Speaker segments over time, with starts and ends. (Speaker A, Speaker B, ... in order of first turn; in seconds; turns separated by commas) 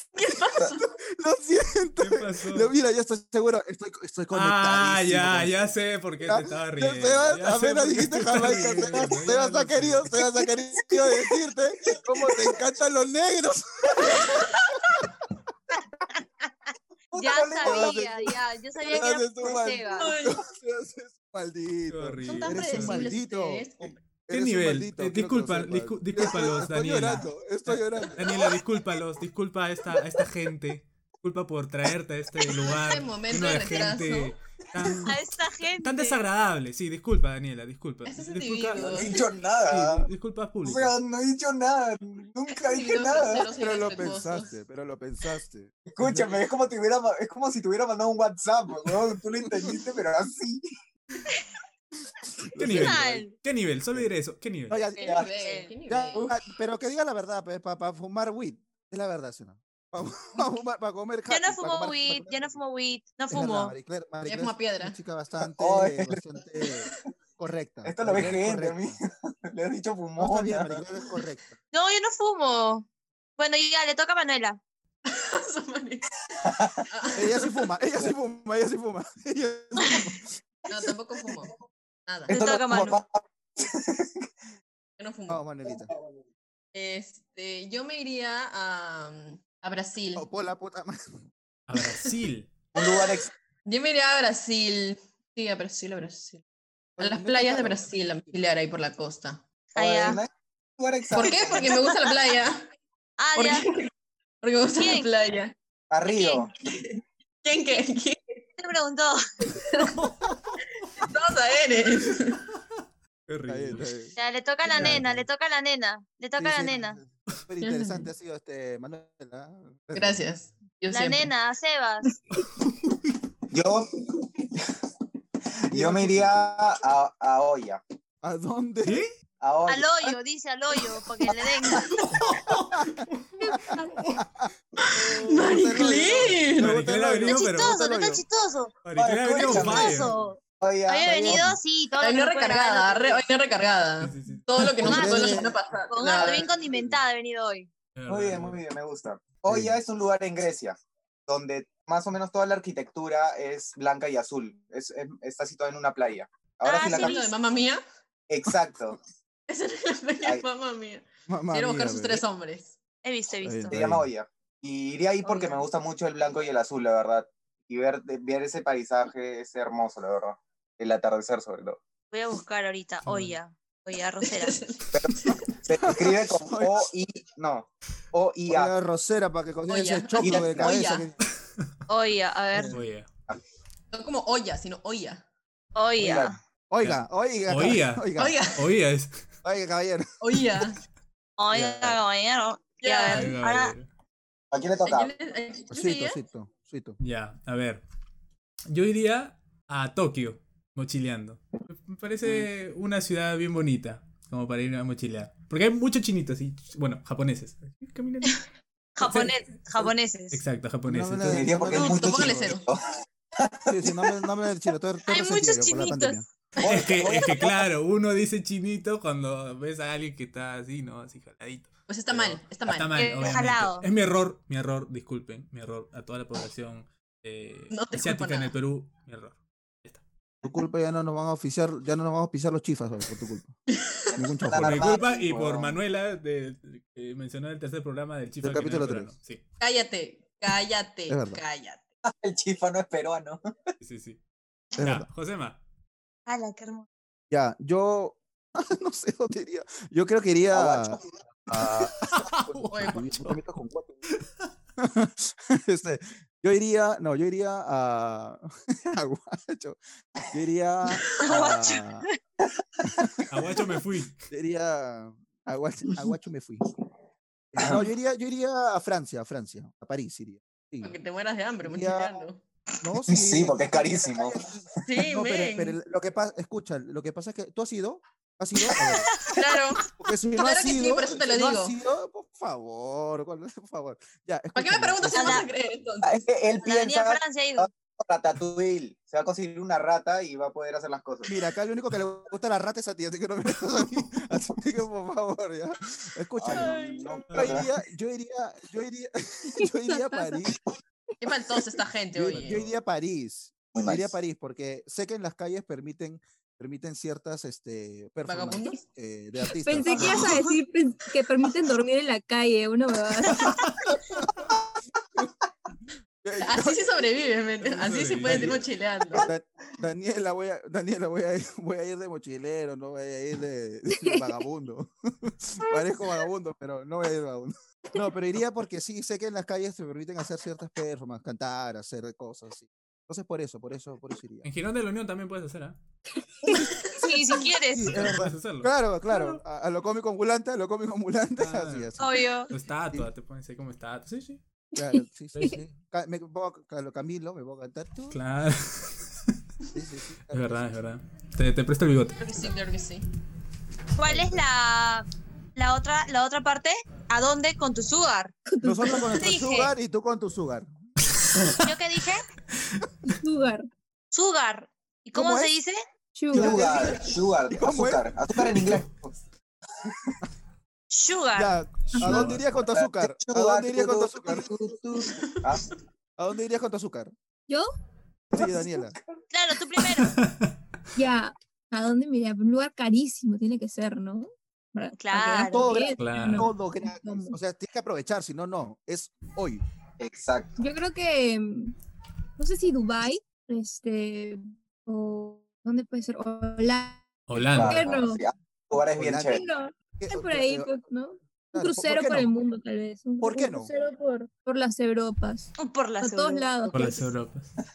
Speaker A: 0.1-0.8, Speaker B: 1.0-5.7, Speaker C: 2.0-2.7, Speaker C: 4.3-10.1, Speaker B: 6.2-15.0, Speaker D: 17.1-18.3, Speaker E: 17.1-20.1, Speaker B: 17.6-18.3, Speaker B: 18.8-23.6, Speaker A: 19.9-20.4, Speaker C: 21.9-23.0, Speaker A: 22.2-23.9, Speaker B: 24.3-28.4, Speaker C: 24.3-41.0, Speaker A: 32.5-35.0, Speaker E: 35.0-36.2, Speaker A: 38.0-39.3, Speaker D: 38.8-40.1, Speaker D: 40.6-43.5, Speaker A: 42.6-44.5, Speaker B: 43.1-46.4, Speaker D: 45.9-50.6, Speaker B: 49.4-49.7, Speaker B: 52.4-53.2, Speaker C: 52.6-54.8, Speaker E: 52.7-53.3, Speaker B: 54.7-55.0, Speaker E: 55.0-55.7, Speaker A: 55.0-56.3, Speaker D: 55.0-55.3, Speaker B: 55.9-62.6, Speaker E: 61.3-63.7, Speaker B: 63.3-69.0, Speaker A: 64.2-65.0, Speaker D: 65.5-66.7, Speaker D: 67.8-71.0, Speaker B: 70.2-71.5, Speaker E: 71.7-72.8, Speaker E: 73.4-74.6, Speaker A: 75.0-76.0, Speaker D: 76.4-76.9, Speaker A: 76.9-77.6, Speaker B: 77.1-80.3, Speaker E: 79.8-80.0, Speaker A: 80.7-81.5, Speaker A: 82.1-82.4, Speaker E: 82.3-83.0, Speaker D: 82.3-84.2, Speaker A: 85.0-85.5, Speaker B: 85.3-85.9, Speaker A: 86.7-90.3, Speaker B: 90.2-91.2, Speaker C: 91.7-92.5, Speaker D: 92.7-93.3, Speaker A: 93.7-96.4, Speaker B: 97.0-97.9, Speaker A: 97.0-99.4, Speaker E: 99.7-100.2, Speaker D: 99.7-101.8, Speaker A: 101.1-102.7, Speaker E: 103.2-103.7, Speaker A: 103.3-103.9, Speaker A: 104.4-105.5, Speaker E: 104.7-105.1, Speaker D: 105.9-106.5, Speaker E: 106.1-106.5, Speaker A: 106.7-108.3, Speaker E: 108.6-109.5, Speaker A: 109.5-110.0, Speaker C: 109.8-110.6, Speaker A: 111.0-112.4, Speaker C: 113.3-113.8, Speaker B: 113.5-114.1, Speaker E: 114.2-117.0, Speaker B: 114.7-115.2, Speaker C: 114.7-115.1, Speaker B: 116.4-120.2, Speaker A: 117.6-118.1, Speaker A: 119.9-121.3, Speaker E: 120.9-122.2, Speaker D: 123.5-124.7, Speaker D: 125.7-127.8, Speaker B: 125.7-126.7, Speaker B: 128.2-129.0, Speaker C: 128.8-129.1, Speaker D: 129.4-130.2, Speaker E: 129.7-131.9, Speaker C: 132.1-133.2, Speaker B: 132.7-133.1, Speaker F: 133.4-133.9, Speaker B: 134.2-138.2, Speaker A: 134.9-136.7, Speaker C: 135.9-137.7, Speaker E: 137.2-138.7, Speaker C: 138.8-140.1, Speaker D: 138.9-141.5, Speaker E: 139.3-143.2, Speaker B: 141.1-141.6, Speaker A: 142.0-146.5, Speaker C: 144.0-145.1, Speaker B: 144.8-145.5, Speaker E: 144.8-147.7, Speaker C: 147.9-148.6, Speaker D: 148.1-150.8, Speaker B: 149.5-149.8, Speaker D: 151.3-157.2, Speaker E: 156.6-157.3, Speaker A: 156.9-157.8, Speaker D: 158.3-159.0, Speaker A: 159.5-162.7, Speaker B: 161.3-162.2, Speaker E: 163.0-163.8, Speaker B: 163.4-164.1, Speaker D: 163.7-171.8, Speaker A: 165.2-165.6, Speaker E: 172.1-174.6, Speaker C: 173.0-173.3, Speaker A: 174.2-175.5, Speaker D: 174.9-178.7, Speaker B: 175.7-176.9, Speaker B: 178.5-181.2, Speaker A: 179.7-181.1, Speaker D: 180.2-180.7, Speaker E: 181.9-182.8, Speaker C: 182.7-183.1, Speaker A: 183.9-185.2, Speaker E: 185.7-186.4, Speaker D: 186.0-186.3, Speaker B: 186.7-188.4, Speaker C: 186.8-189.3, Speaker A: 188.2-188.6, Speaker B: 189.4-190.1, Speaker A: 190.2-190.8, Speaker E: 191.4-193.7, Speaker B: 191.5-192.0, Speaker A: 192.8-193.4, Speaker C: 193.1-193.9, Speaker D: 194.5-195.1, Speaker A: 194.8-196.2, Speaker B: 195.7-197.0, Speaker C: 197.0-197.8, Speaker C: 198.7-208.4, Speaker E: 208.9-210.4, Speaker C: 209.0-209.3, Speaker C: 210.3-211.6, Speaker B: 210.8-212.5, Speaker D: 211.3-212.8, Speaker A: 211.7-212.6, Speaker D: 213.4-214.2, Speaker B: 213.7-216.2, Speaker E: 215.1-216.2, Speaker D: 216.6-217.7, Speaker C: 216.6-230.0, Speaker A: 221.9-223.5, Speaker E: 222.9-223.8, Speaker A: 227.7-228.5, Speaker B: 230.4-233.5, Speaker A: 233.7-234.2, Speaker D: 234.1-235.8, Speaker B: 234.1-235.0, Speaker C: 234.5-239.4, Speaker B: 238.4-239.1, Speaker A: 239.6-241.8, Speaker B: 241.1-241.4, Speaker D: 242.0-243.4, Speaker C: 243.8-244.2, Speaker C: 244.8-245.6, Speaker B: 244.8-245.1, Speaker E: 246.3-246.8, Speaker B: 247.3-254.0, Speaker D: 250.5-251.0, Speaker C: 252.1-253.4, Speaker A: 252.7-253.0, Speaker B: 254.8-259.8, Speaker B: 260.3-262.0, Speaker E: 261.2-262.1, Speaker C: 263.3-264.2, Speaker B: 264.3-266.6, Speaker B: 267.5-271.0, Speaker D: 267.6-267.8, Speaker A: 270.8-272.4, Speaker B: 271.6-272.2, Speaker B: 272.8-279.3, Speaker D: 273.1-274.4, Speaker A: 274.8-275.8, Speaker E: 279.1-279.4, Speaker A: 279.3-281.8, Speaker B: 279.9-285.5, Speaker A: 284.5-286.1, Speaker E: 285.1-285.4, Speaker D: 286.0-291.4, Speaker E: 286.6-287.7, Speaker B: 291.3-296.8, Speaker D: 296.4-297.6, Speaker A: 296.5-297.3, Speaker C: 297.3-297.6, Speaker B: 297.3-300.6, Speaker F: 299.6-300.4, Speaker A: 301.2-302.7, Speaker B: 302.1-310.4, Speaker C: 302.2-302.7, Speaker D: 303.7-304.1, Speaker A: 308.3-308.8, Speaker F: 309.6-313.4, Speaker A: 309.9-310.5, Speaker C: 313.4-313.7, Speaker B: 316.2-316.9, Speaker A: 316.4-319.3, Speaker C: 317.6-318.6, Speaker B: 318.2-318.6, Speaker B: 319.2-334.5, Speaker F: 323.9-324.3, Speaker C: 334.4-335.8, Speaker E: 336.9-338.2, Speaker B: 337.7-342.2, Speaker C: 337.9-339.4, Speaker C: 341.4-341.9, Speaker E: 342.0-342.5, Speaker C: 342.5-344.4, Speaker B: 344.7-348.2, Speaker F: 344.8-345.6, Speaker C: 348.1-349.1, Speaker B: 349.7-350.9, Speaker C: 350.3-352.2, Speaker A: 352.2-353.1, Speaker E: 353.9-358.3, Speaker B: 354.0-354.4, Speaker F: 358.5-359.1, Speaker B: 358.6-360.7, Speaker E: 359.1-359.7, Speaker E: 361.6-362.2, Speaker F: 363.0-363.7, Speaker E: 364.1-365.8, Speaker B: 365.1-365.5, Speaker F: 366.1-366.6, Speaker D: 366.3-369.1, Speaker B: 366.3-366.9, Speaker B: 367.5-368.7, Speaker E: 370.9-371.6, Speaker B: 371.3-374.5, Speaker C: 371.9-372.4, Speaker F: 372.0-372.3, Speaker D: 372.6-375.6, Speaker B: 376.2-377.1, Speaker B: 378.3-379.0, Speaker D: 378.4-378.9, Speaker E: 379.3-380.2, Speaker C: 380.0-380.5, Speaker F: 380.9-387.4, Speaker E: 385.0-385.8, Speaker B: 385.5-389.6, Speaker C: 386.0-386.5, Speaker D: 390.0-390.6, Speaker F: 390.6-391.7, Speaker F: 392.4-398.2, Speaker C: 397.3-397.9, Speaker D: 397.5-399.4, Speaker B: 399.0-399.4, Speaker F: 399.3-407.1, Speaker B: 400.0-400.7, Speaker B: 401.5-402.3, Speaker B: 403.2-403.7, Speaker E: 405.6-406.7, Speaker C: 406.7-407.5